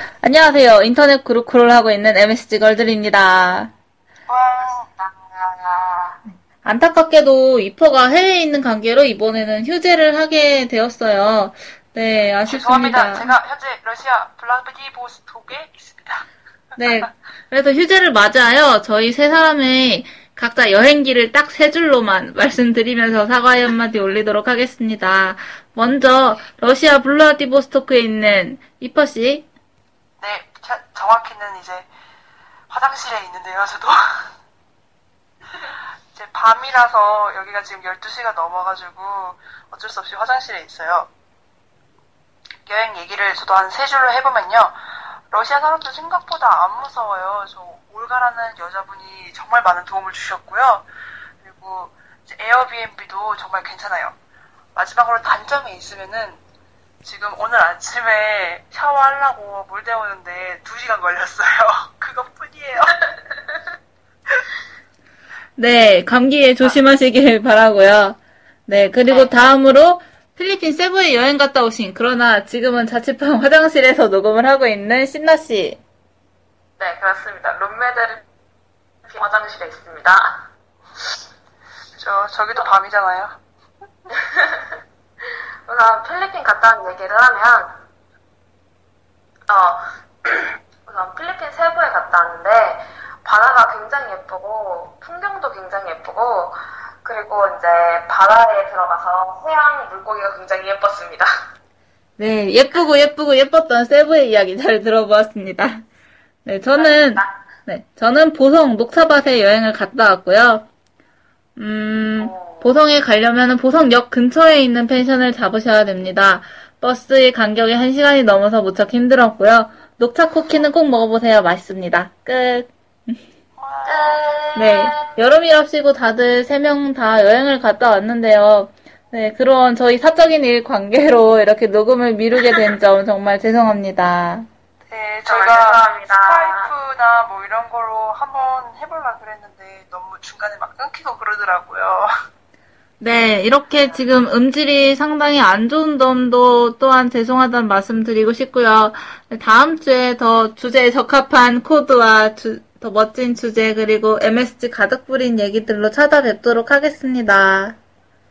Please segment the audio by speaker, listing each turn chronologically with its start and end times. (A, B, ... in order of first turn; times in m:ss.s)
0:00.2-0:03.7 A
0:04.3-0:04.9 B
0:04.9-0:06.2 C
0:06.6-0:13.3 A
0:12.5-0:16.2 B
0:16.8-0:29.5 A
0:30.2-0:31.9 B
0:32.7-0:34.2 B
0:36.1-0:41.1 B
0:42.6-0:44.7 B
0:45.3-0:50.8 B
0:51.4-0:54.2 B
0:54.7-0:56.4 B
0:57.0-1:03.0 B
1:05.6-1:15.8 A
1:09.1-1:09.3 C
1:16.8-1:18.2 C
1:19.0-1:20.4 C
1:22.0-1:23.4 B
1:24.3-1:24.7 C
1:25.6-1:27.8 C
1:29.5-1:41.3 C
1:42.2-1:45.8 A
1:46.4-1:50.7 A
1:46.7-1:47.4 C
1:51.6-2:03.2 A
1:52.2-1:52.7 C
2:03.6-2:04.3 B
2:03.8-2:05.1 C
2:04.5-2:14.5 A
2:14.9-2:22.1 B
2:15.2-2:16.7 C
2:23.0-2:37.8 A